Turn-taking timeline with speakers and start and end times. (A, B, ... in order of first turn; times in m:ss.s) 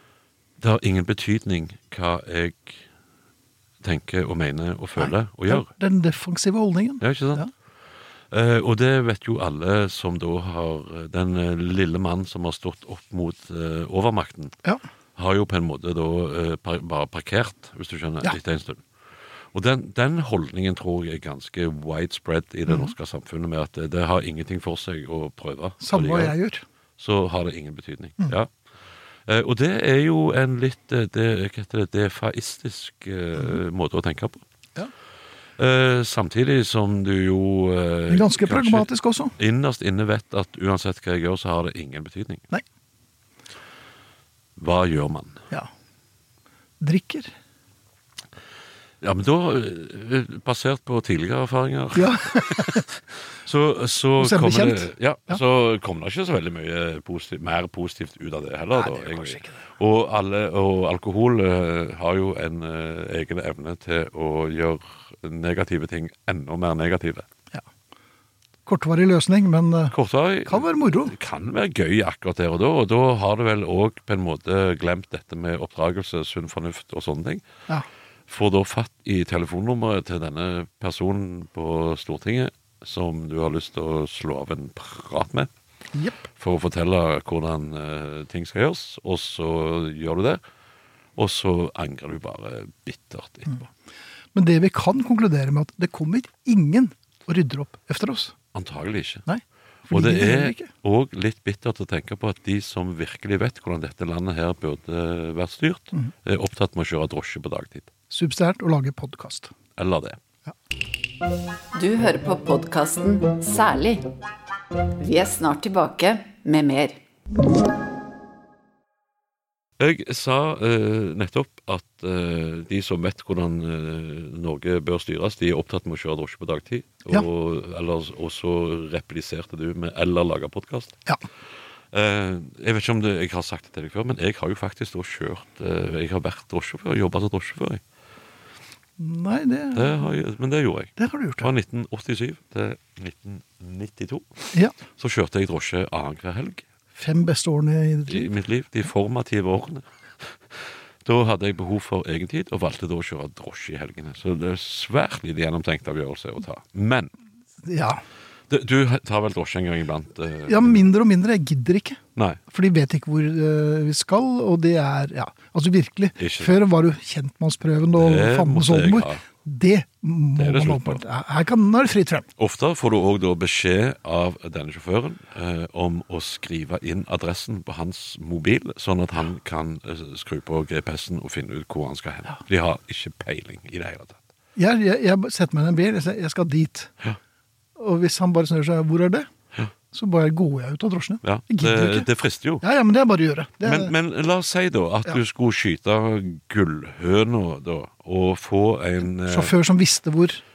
0:00.6-0:02.8 A
0:03.8-0:05.7 A
0:05.0-0:07.5 B
0:07.0-0:07.4 A
0:08.3-0:14.5 A
0:15.2-0:18.8 A
0:19.5-0:26.4 A
0:22.7-0:22.9 B
0:25.8-0:26.6 B
0:27.0-0:28.5 A
0:29.3-0:34.4 A
0:35.6-0:42.5 A
0:38.1-0:39.4 B
0:44.6-0:45.4 A
0:46.8-0:47.3 B
0:49.0-1:07.3 A
0:52.0-0:52.9 B
0:54.2-0:55.4 B
0:58.7-0:59.6 B
1:08.7-1:11.1 B
1:09.9-1:17.4 A
1:18.3-1:25.5 A
1:25.9-1:26.3 B
1:26.3-1:30.4 A
1:31.2-1:33.5 A
1:34.4-1:38.4 B
1:38.5-1:39.3 A
1:39.3-1:40.7 B
1:39.9-1:47.9 A
1:48.1-1:49.5 B
1:49.8-1:50.2 A
1:51.7-1:54.1 C
1:55.0-1:57.0 C
1:59.8-2:11.0 A
2:11.9-2:17.8 A
2:19.0-2:20.2 B
2:19.7-2:26.6 A
2:21.0-2:21.5 B
2:27.0-2:28.3 B
2:28.1-2:37.1 A
2:37.6-2:38.0 B
2:38.5-2:40.9 A
2:40.5-2:52.3 B
2:46.2-2:46.6 A
2:48.0-2:49.2 A
2:50.4-2:51.0 A
2:52.4-3:04.2 A
3:04.6-3:06.9 B
3:07.8-3:09.3 B
3:09.9-3:12.1 B
3:11.2-3:12.6 A
3:12.6-3:13.9 B
3:13.6-3:19.6 A
3:19.2-3:20.4 B